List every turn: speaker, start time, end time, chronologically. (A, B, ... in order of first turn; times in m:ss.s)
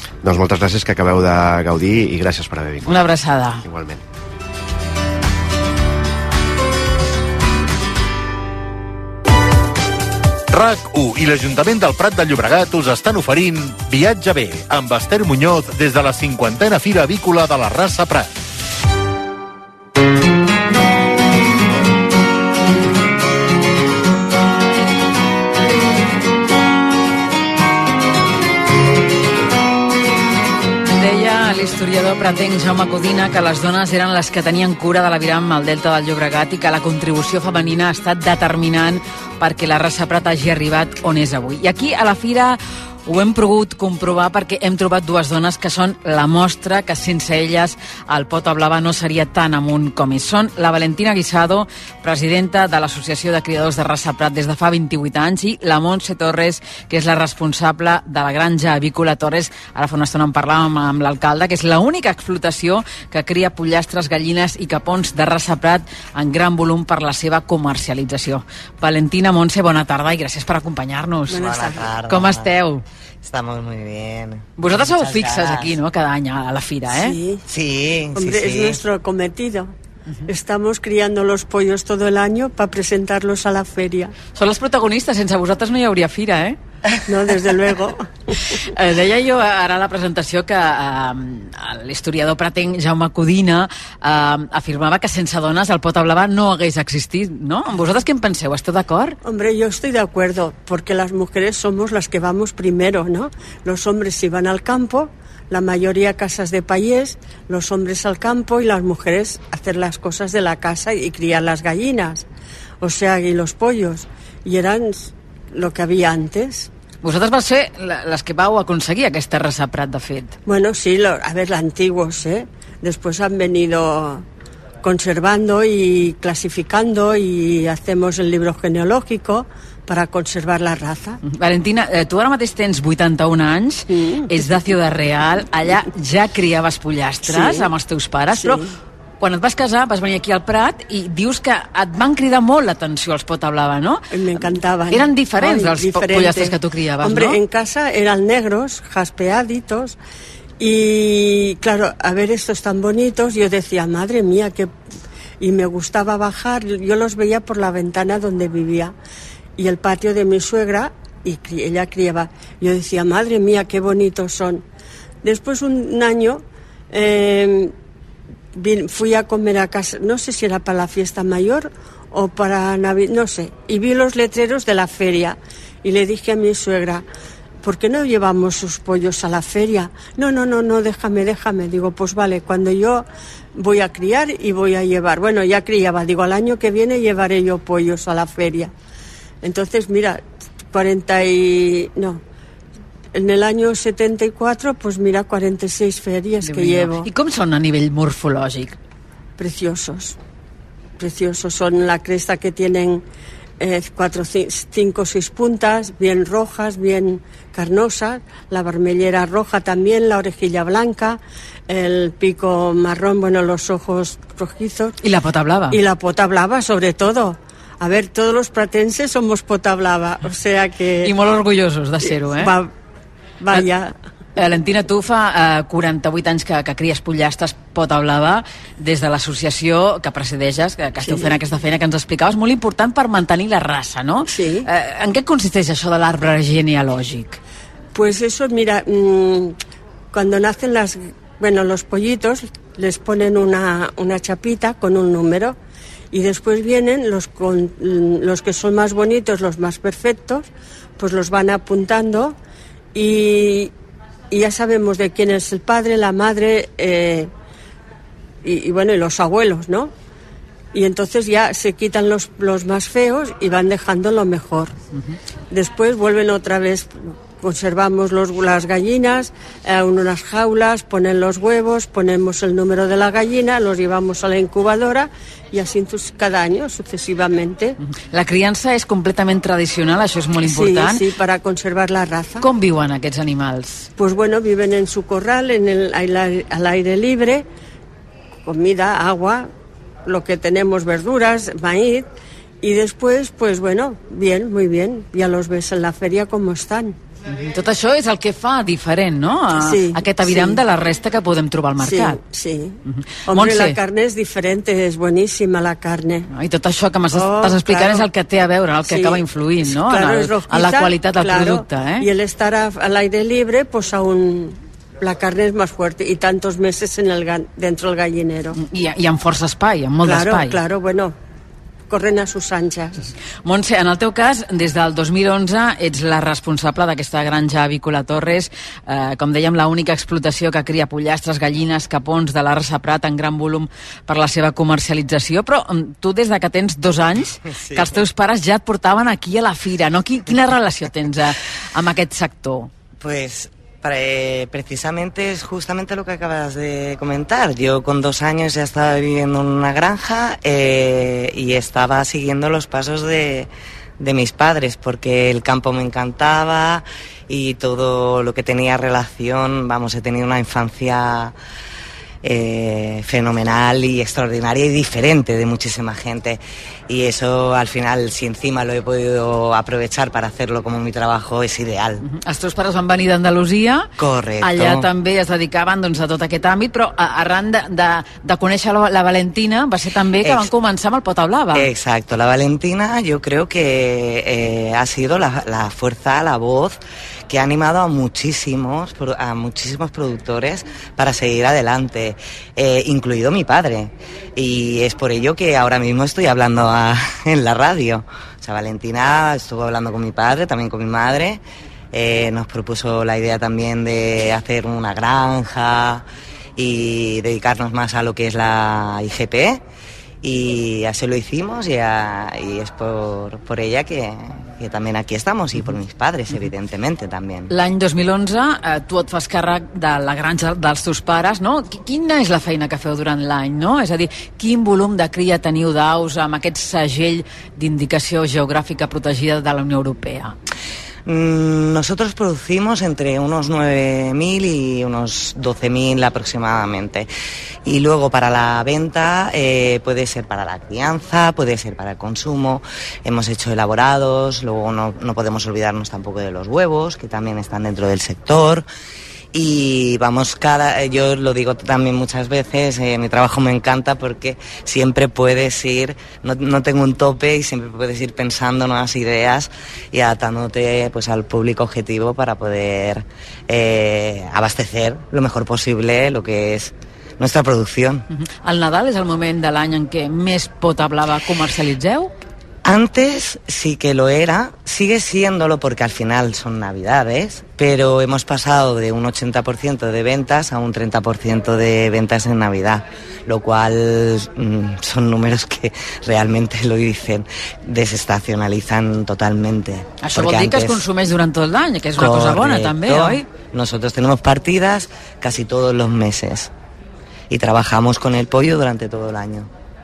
0:00.2-0:03.1 A
0:02.9-0:03.6 B
0:03.6-0:04.0 A
0:10.5-0:18.3 C
0:30.9-1:11.5 B
1:11.3-1:11.9 D
1:11.3-1:12.5 E
1:12.1-1:12.8 B
1:13.2-1:15.8 E
1:14.6-1:17.2 B
1:16.9-1:17.4 D
1:17.5-1:18.8 E
1:18.2-1:19.7 D
1:20.3-1:24.1 D
1:24.4-1:26.6 B
1:27.1-1:28.1 D
1:28.7-1:39.2 B
1:39.2-1:52.3 D
1:52.8-1:56.7 D
1:57.0-2:00.4 B
2:00.5-2:04.2 D
2:04.8-2:11.2 D
2:11.2-2:18.6 B
2:13.9-2:14.6 D
2:17.3-2:17.7 D
2:18.3-2:18.7 D
2:19.2-2:27.4 B
2:24.1-2:30.0 D
2:30.6-2:34.7 D
2:35.4-2:38.9 D
2:39.6-2:44.6 D
2:45.2-2:47.7 D
2:48.6-2:57.0 D
2:57.6-3:08.7 D
3:09.4-3:12.2 D
3:13.1-3:17.1 D
3:16.4-3:18.8 B
3:19.4-3:20.2 D
3:21.0-3:23.0 D
3:23.6-3:35.0 D
3:35.0-3:35.8 B
3:35.7-3:41.1 D
3:41.0-3:42.5 B
3:42.3-3:42.7 D
3:43.4-3:44.0 D
3:44.4-3:57.4 B
3:51.0-3:51.3 D
3:54.3-3:54.7 D
3:58.0-3:59.6 D
4:00.1-4:05.6 D
4:06.1-4:10.5 D
4:11.0-4:12.4 D
4:12.9-4:13.7 D
4:14.3-4:17.3 D
4:18.4-4:19.9 D
4:20.7-4:24.7 D
4:25.5-4:37.8 D
4:38.1-4:41.0 B
4:40.5-4:42.5 D
4:42.4-4:43.9 B
4:44.0-4:47.5 D
4:48.4-4:49.5 D
4:50.1-4:52.1 D
4:52.6-4:57.0 D
4:57.3-5:02.2 B
4:59.6-5:00.6 D
5:01.8-5:06.3 D
5:02.9-5:03.8 B
5:06.3-5:12.1 B
5:07.1-5:08.1 D
5:08.9-5:18.6 D
5:18.6-5:20.6 B
5:20.0-5:21.2 D
5:21.9-5:23.1 D
5:23.4-5:42.7 B
5:37.5-5:38.0 E
5:43.0-6:01.3 E
6:02.2-6:12.0 E
6:12.0-6:13.9 B
6:14.0-6:14.9 E
6:14.4-6:21.7 B
6:20.2-6:20.5 E
6:21.5-6:26.8 E
6:27.3-6:41.4 E
6:41.9-6:46.0 E
6:46.6-6:49.6 E
6:50.2-6:57.5 E
6:57.5-7:10.4 B
7:11.1-7:17.1 E
7:17.7-7:28.7 E
7:29.3-7:48.0 E
7:48.4-7:52.1 B
7:52.6-8:10.8 E
8:10.0-8:13.2 B
8:12.0-8:16.5 E
8:17.3-8:19.5 E